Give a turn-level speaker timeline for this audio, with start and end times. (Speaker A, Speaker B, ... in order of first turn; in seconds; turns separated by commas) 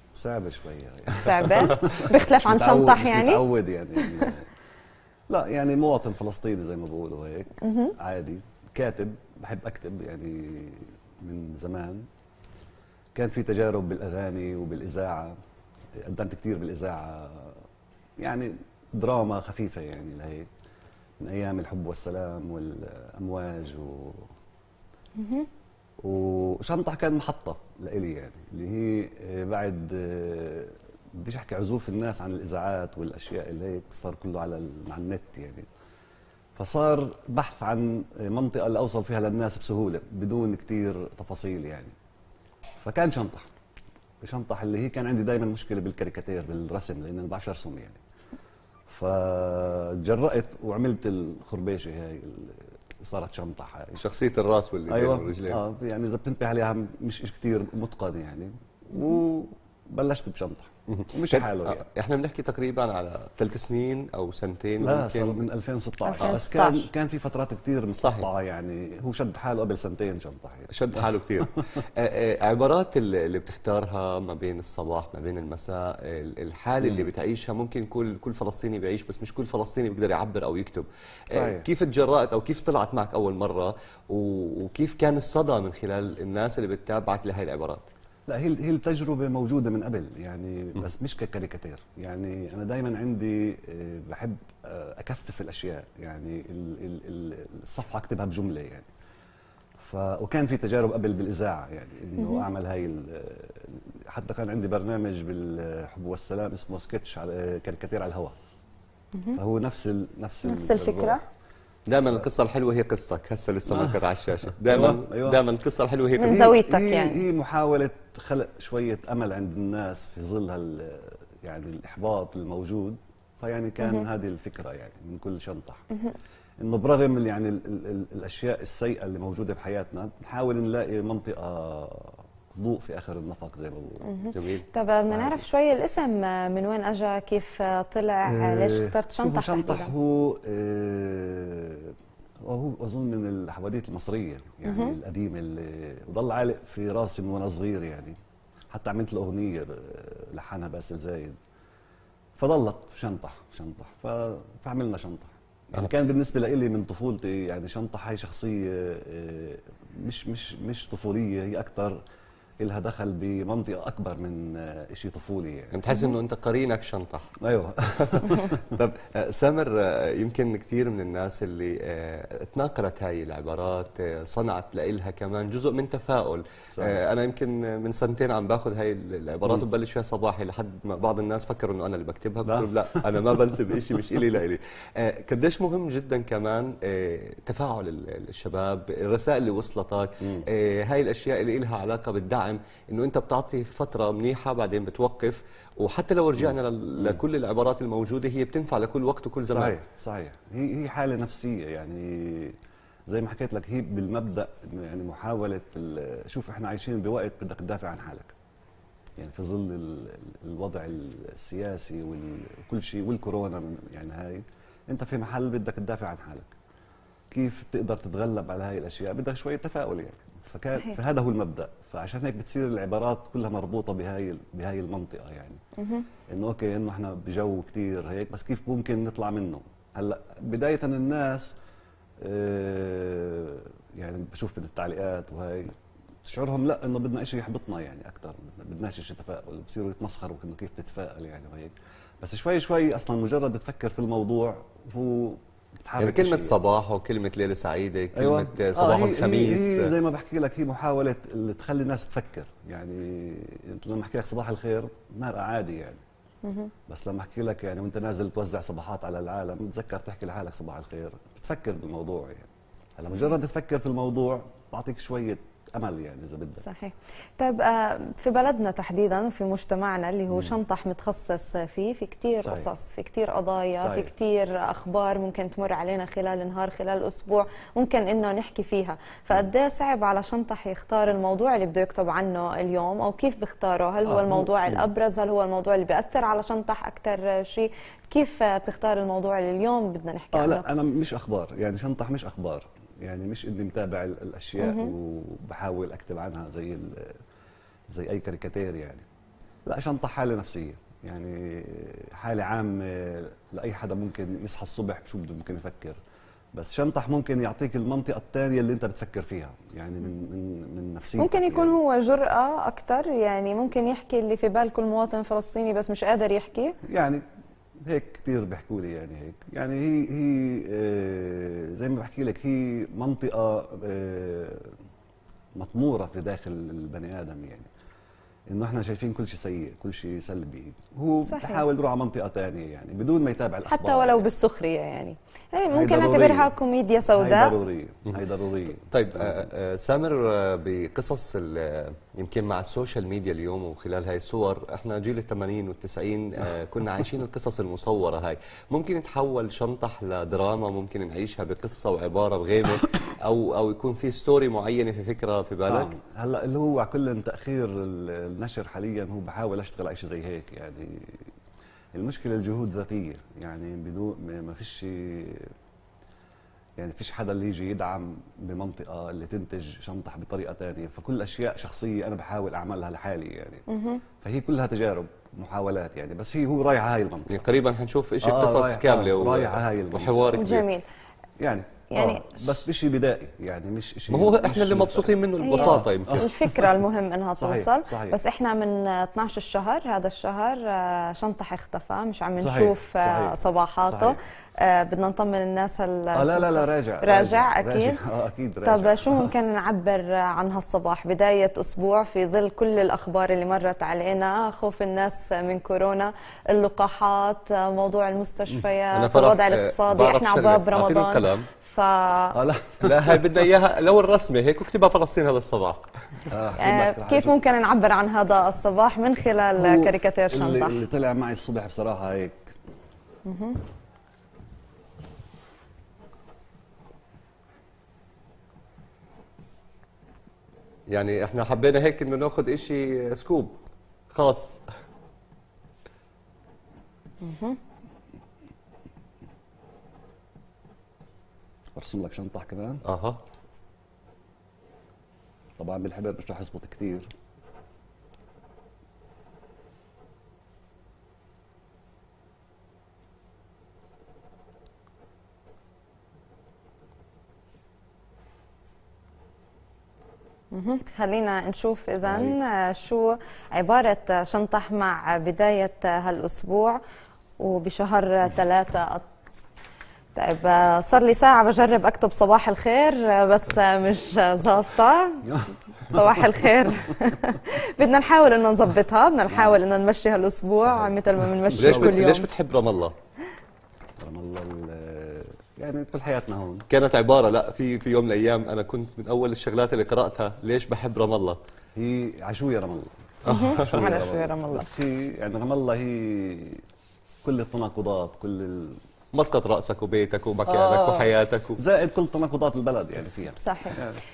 Speaker A: 0.1-4.5, Speaker B: 1.2-3.4, Speaker B: 4.0-4.3, Speaker A: 5.3-12.0, Speaker B: 7.6-7.9, Speaker A: 13.1-15.3, Speaker A: 16.0-17.6, Speaker A: 18.2-20.5, Speaker A: 21.2-24.2, Speaker B: 25.2-25.5, Speaker A: 26.0-35.7, Speaker A: 36.5-41.9, Speaker A: 42.8-43.5, Speaker A: 44.2-48.0, Speaker A: 48.9-54.0, Speaker C: 54.0-55.6, Speaker A: 54.9-61.8, Speaker C: 61.3-65.4, Speaker A: 64.8-71.5, Speaker B: 66.0-66.9, Speaker C: 68.0-68.3, Speaker C: 70.7-87.8, Speaker A: 76.8-77.1, Speaker A: 81.3-81.7, Speaker A: 88.3-98.9, Speaker A: 99.8-108.3, Speaker B: 102.2-102.4, Speaker A: 109.3-111.2, Speaker B: 110.4-111.2, Speaker C: 111.9-116.5, Speaker A: 113.7-115.4, Speaker B: 116.2-117.2, Speaker A: 116.2-125.8, Speaker A: 126.6-134.3, Speaker B: 134.0-139.9, Speaker C: 134.3-134.6, Speaker A: 135.1-135.4, Speaker A: 138.3-148.2, Speaker B: 144.6-144.9, Speaker A: 148.7-151.4, Speaker A: 152.3-162.0, Speaker A: 162.6-165.8, Speaker C: 165.7-167.4, Speaker A: 167.4-168.6, Speaker C: 168.0-199.8, Speaker A: 182.4-184.0, Speaker A: 190.2-190.4, Speaker A: 196.4-197.2, Speaker A: 199.5-202.6, Speaker A: 203.1-208.3, Speaker A: 209.2-216.5, Speaker A: 217.3-225.6, Speaker B: 220.7-221.0, Speaker B: 225.8-226.1, Speaker A: 226.3-231.5, Speaker A: 232.2-235.7, Speaker A: 236.2-246.6, Speaker C: 246.0-249.9, Speaker A: 248.1-256.0, Speaker B: 256.4-256.7, Speaker A: 256.9-266.6, Speaker B: 266.6-290.6, Speaker A: 270.3-270.6, Speaker A: 272.4-272.7, Speaker A: 273.8-274.1, Speaker A: 284.1-284.9, Speaker A: 290.3-297.2, Speaker B: 294.6-294.9, Speaker A: 297.9-299.0, Speaker A: 299.6-306.0, Speaker A: 306.5-311.8, Speaker B: 311.2-316.8, Speaker A: 316.8-317.2, Speaker A: 317.8-324.7, Speaker A: 325.6-327.7, Speaker A: 328.5-334.3, Speaker B: 331.2-331.6, Speaker B: 333.7-337.5, Speaker A: 335.7-336.5, Speaker A: 337.1-339.5, Speaker C: 338.9-355.9, Speaker A: 355.6-361.3, Speaker A: 361.9-365.5, Speaker A: 366.8-373.6, Speaker B: 373.7-374.0, Speaker A: 374.2-377.3, Speaker C: 377.3-380.7, Speaker A: 378.2-380.5, Speaker B: 380.3-380.8, Speaker A: 381.4-386.7, Speaker B: 381.9-382.5, Speaker C: 384.1-386.3, Speaker B: 385.4-398.0, Speaker A: 387.4-388.2, Speaker A: 392.4-394.2, Speaker A: 396.1-399.3, Speaker B: 398.6-412.4, Speaker C: 408.9-411.5, Speaker A: 412.3-413.3, Speaker C: 412.8-416.2, Speaker A: 416.3-417.4, Speaker B: 416.6-420.8, Speaker A: 419.6-422.5, Speaker B: 423.2-423.6, Speaker C: 430.9-433.6, Speaker C: 434.1-434.6, Speaker B: 437.2-437.6, Speaker A: 441.7-442.8, Speaker C: 442.9-443.2, Speaker A: 445.6-447.1, Speaker B: 460.5-466.8, Speaker A: 462.1-462.3, Speaker B: 467.4-469.1, Speaker B: 470.1-475.2, Speaker A: 475.2-476.5, Speaker B: 475.8-482.3, Speaker A: 479.3-479.6, Speaker A: 480.6-482.0, Speaker C: 481.6-482.9, Speaker A: 484.0-486.6, Speaker C: 486.7-491.4, Speaker A: 491.8-496.6, Speaker C: 493.2-493.9, Speaker B: 493.3-494.7, Speaker A: 497.2-498.8, Speaker C: 499.1-501.6, Speaker A: 500.4-504.0, Speaker B: 503.4-503.8